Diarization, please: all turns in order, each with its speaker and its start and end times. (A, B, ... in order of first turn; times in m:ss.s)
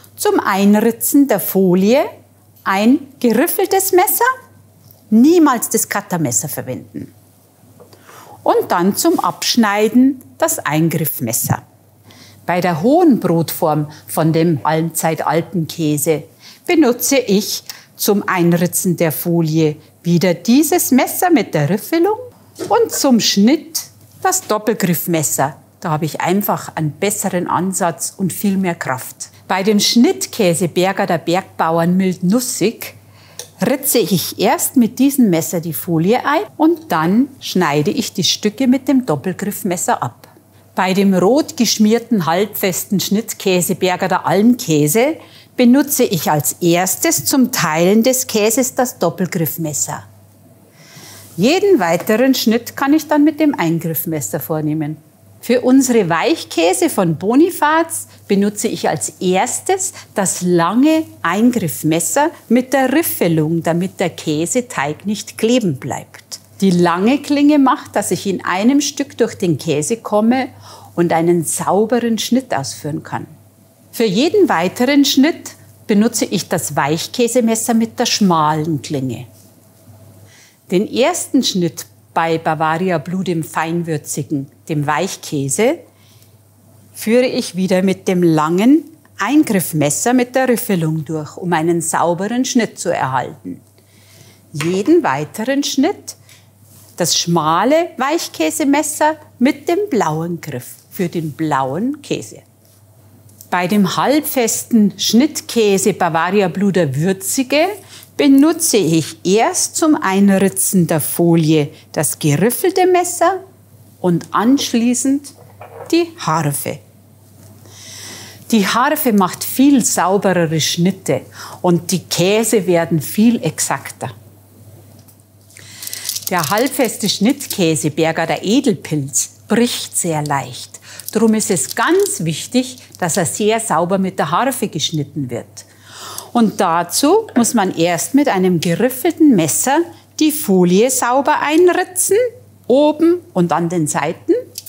0:00.2-0:02.1 A
0:02.6-0:04.3 A
0:05.1-0:07.1 A
0:08.4-0:11.6 A
0:12.4-0:33.0 A
0:33.6-0:50.0 A
0:51.4-1:13.3 A
1:13.9-1:19.3 A
1:20.7-1:25.8 A
1:27.0-1:33.6 A
1:34.5-1:36.2 A
1:37.0-1:42.4 A
1:43.5-1:53.4 A
1:54.0-1:55.3 A
1:55.9-1:56.8 A
1:58.5-2:04.1 A
2:06.3-2:15.7 A
2:16.3-2:24.4 A